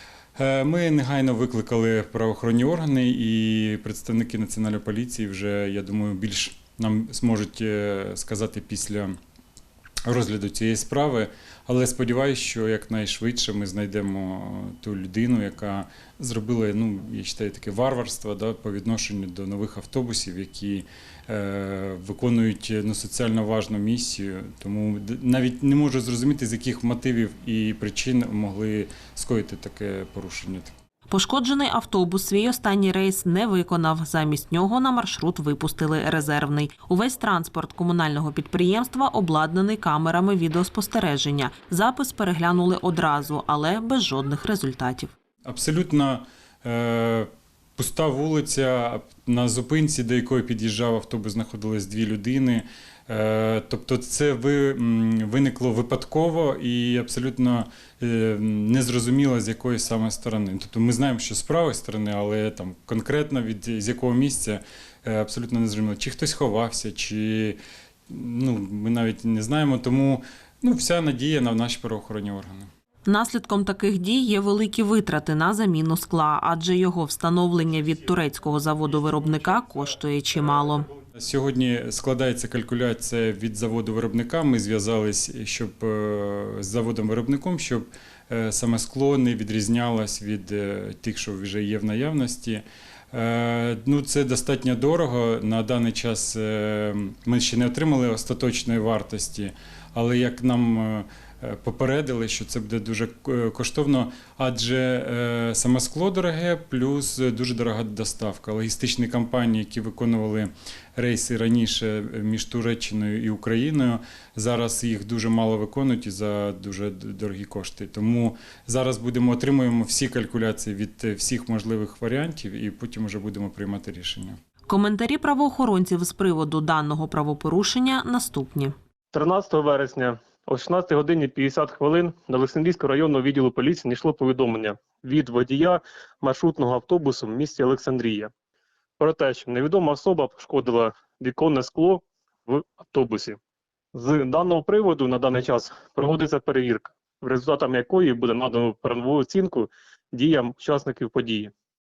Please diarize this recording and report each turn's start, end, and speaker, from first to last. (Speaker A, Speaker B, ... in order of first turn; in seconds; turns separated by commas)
Speaker A: 0.4-9.2, Speaker A: 10.1-30.7, Speaker B: 31.1-45.1, Speaker A: 45.5-67.6, Speaker A: 68.1-72.7, Speaker B: 73.1-80.9, Speaker A: 81.2-124.4, Speaker B: 124.7-128.8, Speaker C: 129.1-138.3, Speaker C: 139.0-143.4, Speaker C: 143.9-151.5